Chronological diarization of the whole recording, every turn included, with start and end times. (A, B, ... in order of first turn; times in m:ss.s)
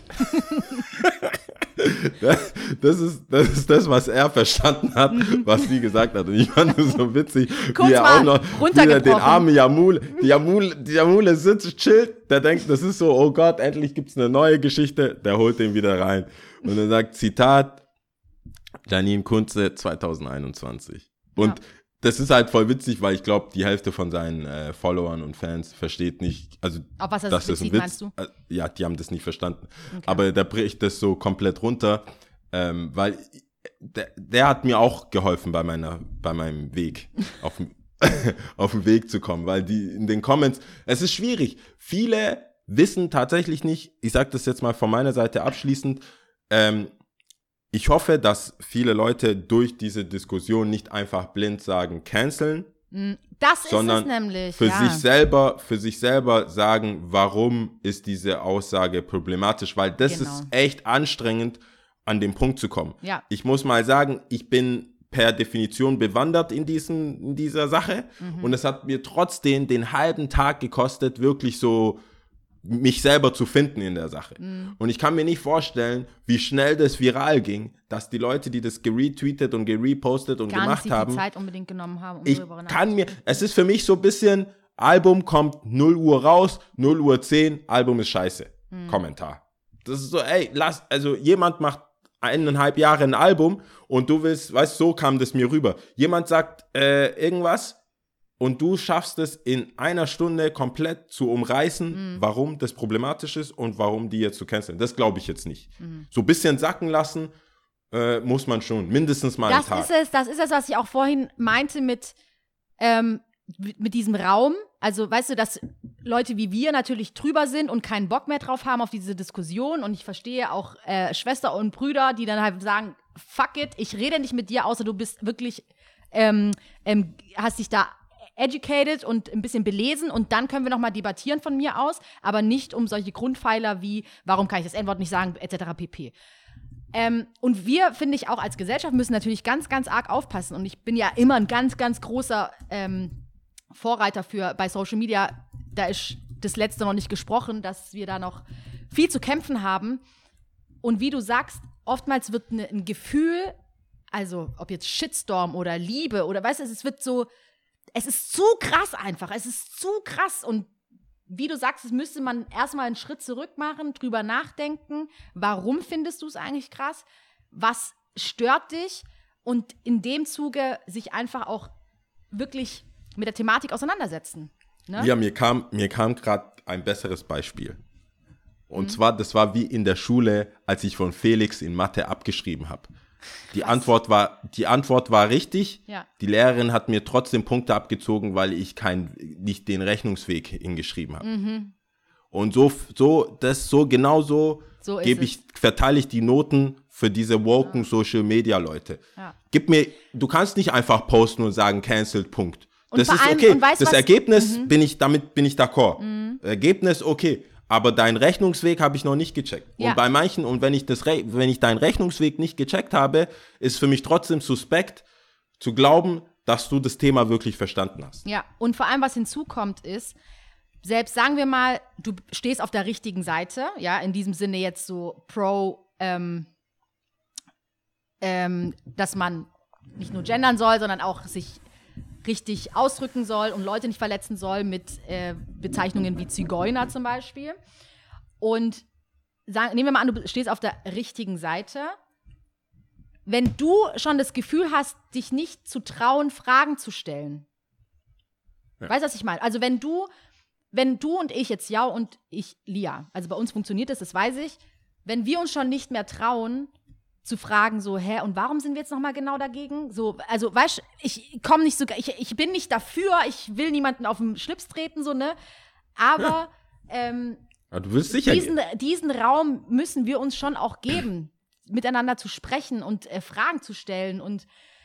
0:00.8-0:17.8 A
0:07.7-0:09.5 B
0:18.8-0:46.9 A
0:27.0-0:28.1 B
0:29.9-0:30.2 B
0:47.7-0:52.7 A
0:52.9-0:55.0 B
0:53.7-1:12.0 A
1:00.1-1:00.5 B
1:08.2-1:08.6 B
1:12.6-1:21.2 A
1:14.4-1:14.7 B
1:20.5-1:22.8 B
1:22.2-1:37.8 A
1:28.7-1:29.0 B
1:38.4-1:47.3 A
1:41.9-1:42.2 B
1:47.9-1:49.9 A
1:49.5-1:52.1 B
1:52.8-2:16.1 B
2:16.9-2:23.1 B
2:23.7-2:30.0 B
2:30.8-2:33.5 B
2:34.1-2:37.3 B
2:37.9-2:40.7 B
2:41.3-2:51.7 B
2:52.3-2:55.1 B
2:55.0-2:57.8 A
2:58.7-3:02.9 A
3:03.5-3:11.2 A
3:11.2-3:11.7 B
3:12.3-3:35.0 A
3:14.8-3:15.4 B
3:22.9-3:24.7 B
3:26.0-3:26.4 B
3:35.6-3:38.2 A
3:38.2-3:40.2 B
3:40.8-3:46.5 B
3:48.2-3:51.6 B
3:52.2-3:57.5 B
3:58.4-3:58.8 B
3:59.5-4:01.9 B
4:03.2-4:07.4 B
4:08.8-4:10.1 B
4:10.7-4:16.7 B
4:17.2-4:25.3 B
4:26.0-4:27.4 B
4:27.7-4:28.5 A
4:28.1-4:34.5 B